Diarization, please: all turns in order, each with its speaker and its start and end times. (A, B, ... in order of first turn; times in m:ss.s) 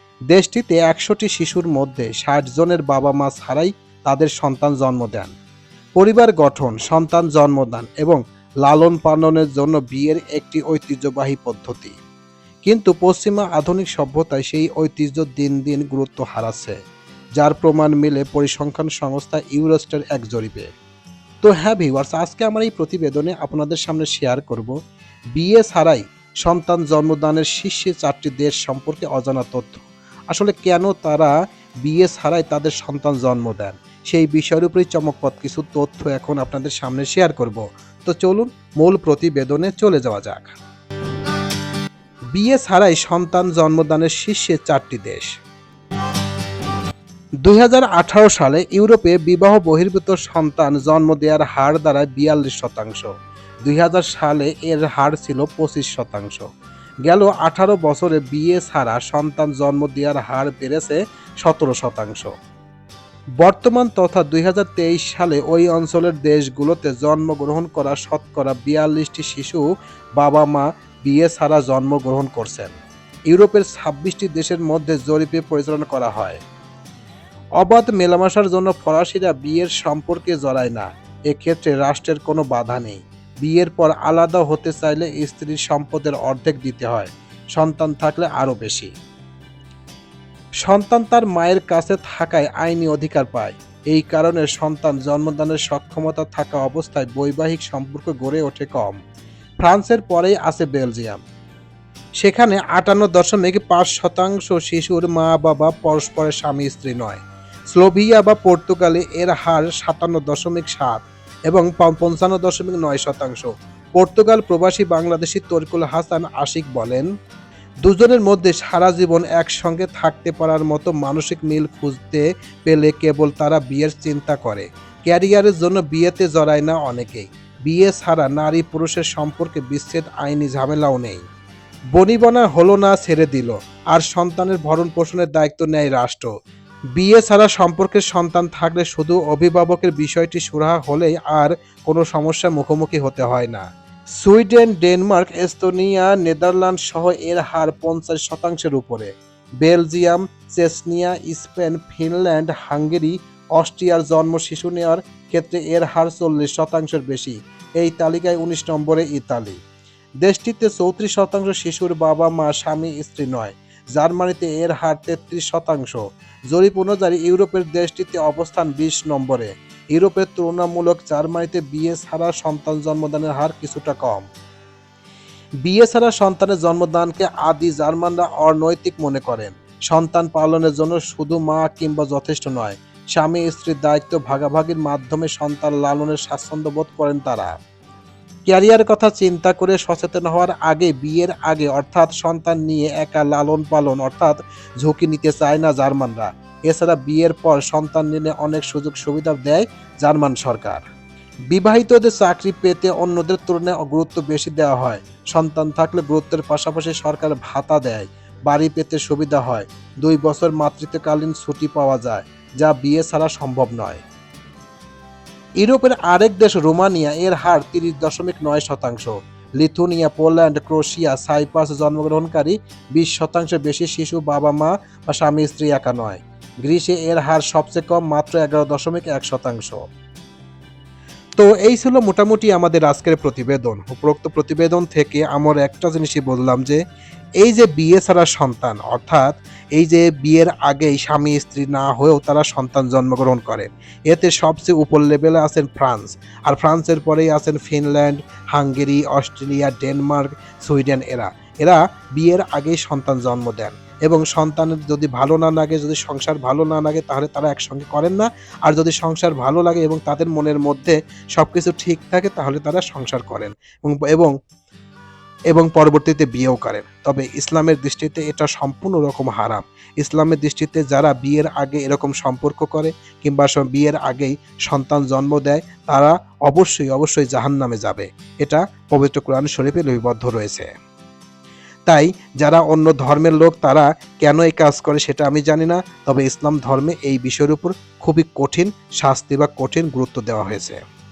0:00.3-0:05.3 A
0:06.0-0:12.0 A
0:12.6-0:16.8 A
0:17.4-0:20.7 A
0:21.4-0:24.7 A
0:25.4-0:31.3 A
0:31.8-0:40.6 A
0:42.3-0:45.3 A
0:47.4-0:53.1 A
0:53.6-0:56.5 A
0:57.0-1:02.3 A
1:03.4-1:09.6 A
1:10.2-1:12.7 A
1:13.3-1:16.4 A
1:17.6-1:28.9 A
1:30.6-1:39.0 A
1:39.6-1:41.2 A
1:42.2-1:47.2 A
1:47.7-1:57.1 A
1:57.8-2:11.2 A
2:11.9-2:16.3 A
2:17.0-2:23.6 A
2:24.2-2:39.6 A
2:40.2-2:54.2 A
2:55.6-3:07.6 A
3:08.4-3:20.8 A
3:21.5-3:34.0 A
3:35.6-3:49.9 A
3:51.4-3:56.8 A
3:57.4-4:24.3 A
4:25.5-4:40.7 A
4:41.9-4:50.8 A